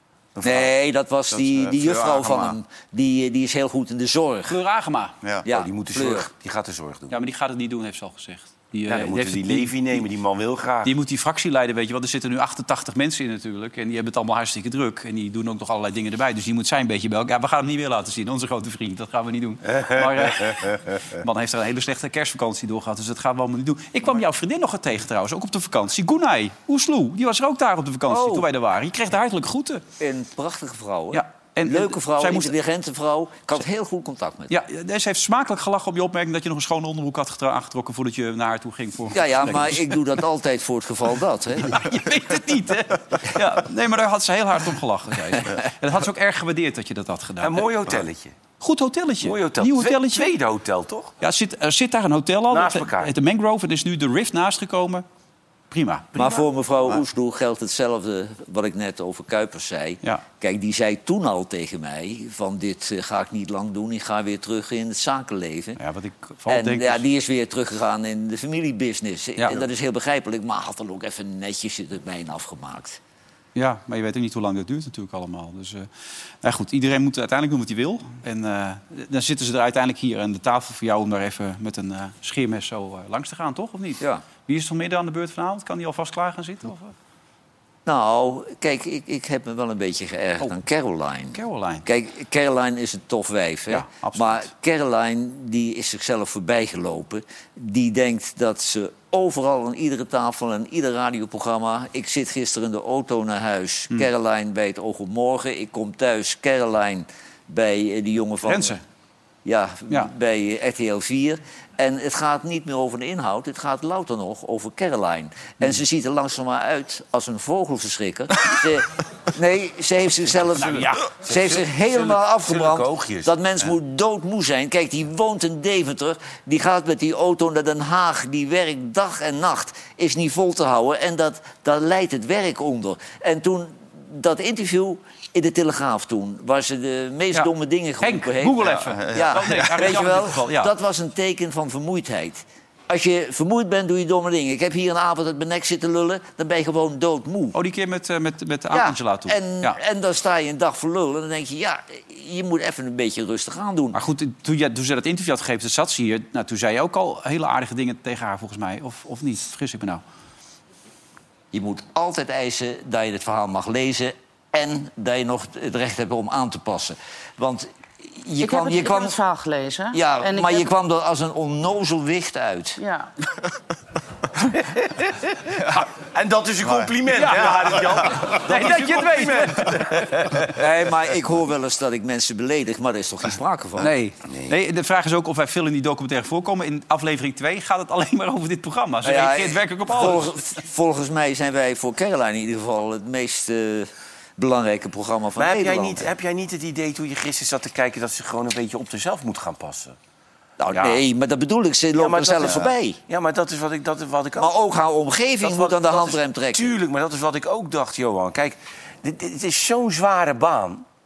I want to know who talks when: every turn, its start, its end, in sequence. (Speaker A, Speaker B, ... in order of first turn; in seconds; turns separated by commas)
Speaker A: 0.3-0.7, Speaker B: 0.4-4.5, Speaker A: 1.3-2.6, Speaker C: 4.5-5.1, Speaker A: 5.2-5.5, Speaker B: 5.4-6.3, Speaker D: 5.5-7.1, Speaker C: 7.1-10.0, Speaker D: 8.9-10.9, Speaker C: 10.8-29.8, Speaker D: 19.7-20.7, Speaker B: 28.1-28.5, Speaker B: 30.0-34.5, Speaker C: 31.1-32.5, Speaker C: 34.5-39.9, Speaker B: 39.1-41.8, Speaker C: 41.6-47.7, Speaker D: 47.4-48.3, Speaker C: 48.6-50.3, Speaker D: 49.2-51.1, Speaker C: 51.2-55.0, Speaker D: 52.5-53.1, Speaker C: 55.7-56.1, Speaker B: 56.1-65.8, Speaker D: 56.2-56.4, Speaker C: 65.8-67.0, Speaker B: 66.5-73.0, Speaker C: 69.4-69.6, Speaker C: 73.5-75.9, Speaker C: 76.4-86.9, Speaker B: 87.8-108.8, Speaker C: 91.3-91.8, Speaker C: 93.7-94.5, Speaker C: 108.4-108.8, Speaker B: 109.4-147.5, Speaker C: 120.5-121.0, Speaker D: 121.2-123.3, Speaker C: 138.0-140.7, Speaker A: 138.6-140.1, Speaker C: 147.5-149.8, Speaker B: 148.7-154.0, Speaker C: 153.9-160.0, Speaker B: 161.5-169.2, Speaker E: 168.4-170.6, Speaker B: 169.9-172.8, Speaker E: 172.8-173.1, Speaker D: 174.6-180.6, Speaker A: 176.6-178.2, Speaker C: 177.1-177.6, Speaker C: 178.2-180.2, Speaker B: 180.5-183.9, Speaker C: 183.8-190.3, Speaker B: 189.0-196.1, Speaker D: 195.4-200.0, Speaker B: 200.6-203.0, Speaker C: 200.7-201.0, Speaker D: 201.9-204.6, Speaker B: 204.4-206.7, Speaker D: 205.4-210.8